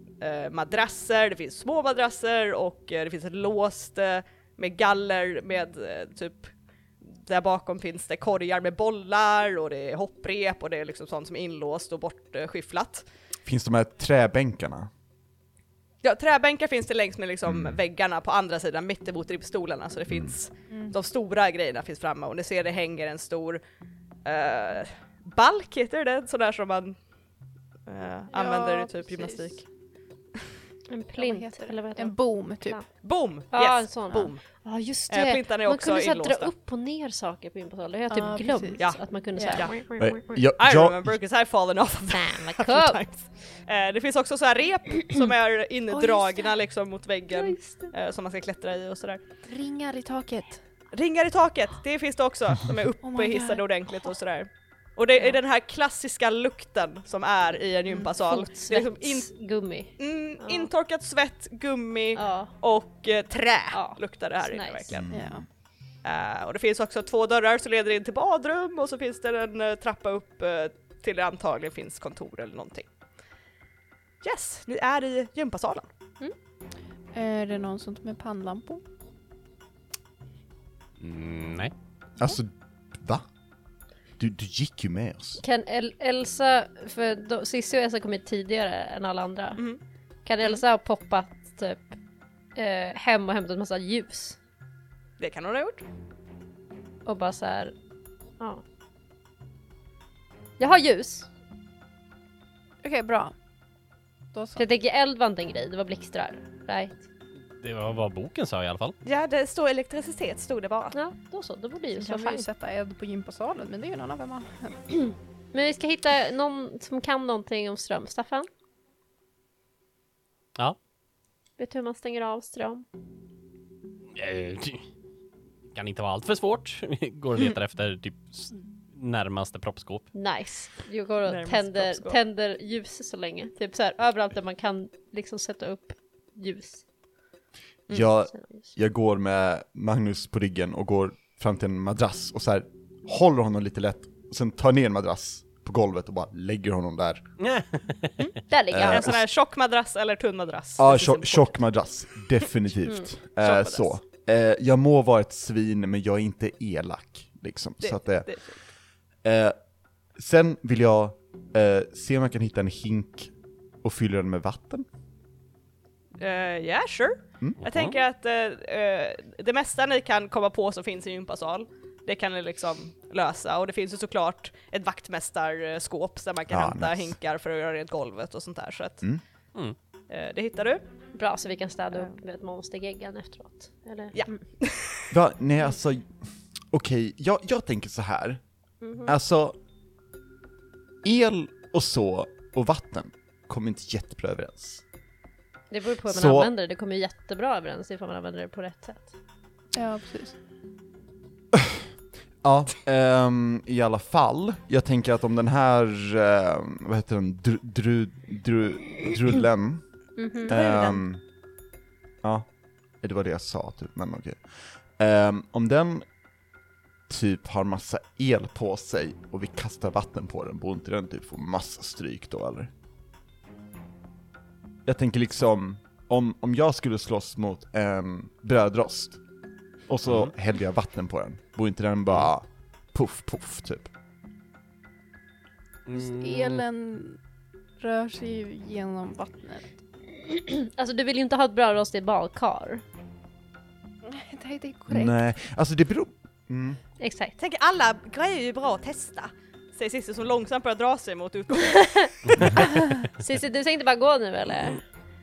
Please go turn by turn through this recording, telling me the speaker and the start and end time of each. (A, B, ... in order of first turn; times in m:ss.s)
0:00.2-0:13.0 A
0:13.4-0:14.9 B
0:16.0-0:23.6 A
0:17.4-0:17.8 B
0:20.1-0:20.3 B
0:20.7-0:20.9 C
0:24.2-0:27.0 A
0:27.8-0:29.6 A
0:28.3-0:29.5 C
0:30.9-0:32.9 D
0:31.2-0:32.9 C
0:33.0-0:34.4 A
0:33.5-0:40.4 D
0:35.1-0:36.5 A
0:38.1-0:38.8 C
0:39.4-0:39.6 C
0:40.0-0:41.2 B
0:40.6-0:49.2 A
0:42.1-0:43.0 D
0:45.9-0:46.5 C
0:47.3-0:47.9 D
0:49.4-0:50.6 C
0:50.9-0:59.3 A
0:53.0-0:53.6 C
0:57.9-1:00.7 D
1:00.0-1:05.1 A
1:02.2-1:02.5 D
1:03.7-1:04.9 D
1:04.9-1:05.4 B
1:05.0-1:05.4 C
1:06.0-1:12.9 A
1:14.2-1:15.9 A
1:17.1-1:18.8 C
1:21.0-1:21.7 E
1:22.2-1:23.2 B
1:24.2-1:25.4 B
1:25.4-1:29.6 D
1:30.2-1:32.0 D
1:32.5-1:34.4 D
1:35.2-1:35.8 A
1:37.0-1:37.7 D
1:40.6-1:41.3 D
1:42.8-1:43.3 C
1:44.3-1:44.6 C
1:44.6-1:47.0 D
1:47.6-1:49.0 E
1:49.0-1:50.9 A
1:50.9-1:52.5 D
1:52.0-1:54.9 C
1:55.5-1:58.5 D
2:01.6-2:02.8 D
2:04.1-2:04.8 E
2:05.7-2:10.1 E
2:10.1-2:16.8 D
2:11.2-2:12.2 A
2:17.9-2:27.2 B
2:18.0-2:18.7 D
2:27.4-2:28.2 E
2:28.5-2:29.2 D
2:28.7-2:29.2 B
2:28.9-2:31.5 A
2:30.8-2:38.3 B
2:33.4-2:33.9 A
2:37.8-2:38.5 A
2:39.2-2:39.6 B
2:40.2-2:44.8 B
2:46.2-2:59.0 A
2:47.6-2:47.9 E
2:56.5-2:57.2 B
3:00.1-3:00.8 A
3:01.1-3:04.4 D
3:04.1-3:05.1 A
3:05.1-3:06.1 B
3:06.7-3:08.4 B
3:08.8-3:09.1 D
3:09.0-3:09.6 B
3:11.0-3:14.8 B
3:15.7-3:19.2 D
3:16.0-3:16.5 B
3:19.7-3:20.3 C
3:21.5-3:21.8 B
3:22.4-3:29.8 B
3:30.2-3:30.5 D
3:30.4-3:31.2 B
3:30.5-3:31.0 A
3:33.0-3:34.4 B
3:35.0-3:36.0 B
3:37.1-3:42.7 B
3:44.8-3:49.2 B
3:49.9-3:53.9 B
3:55.8-3:56.6 E
3:55.9-3:57.2 C
3:57.8-3:59.7 C
4:00.2-4:02.8 D
4:04.0-4:05.2 C
4:04.9-4:06.8 B
4:07.0-4:07.4 D
4:07.4-4:12.6 A
4:11.6-4:14.8 D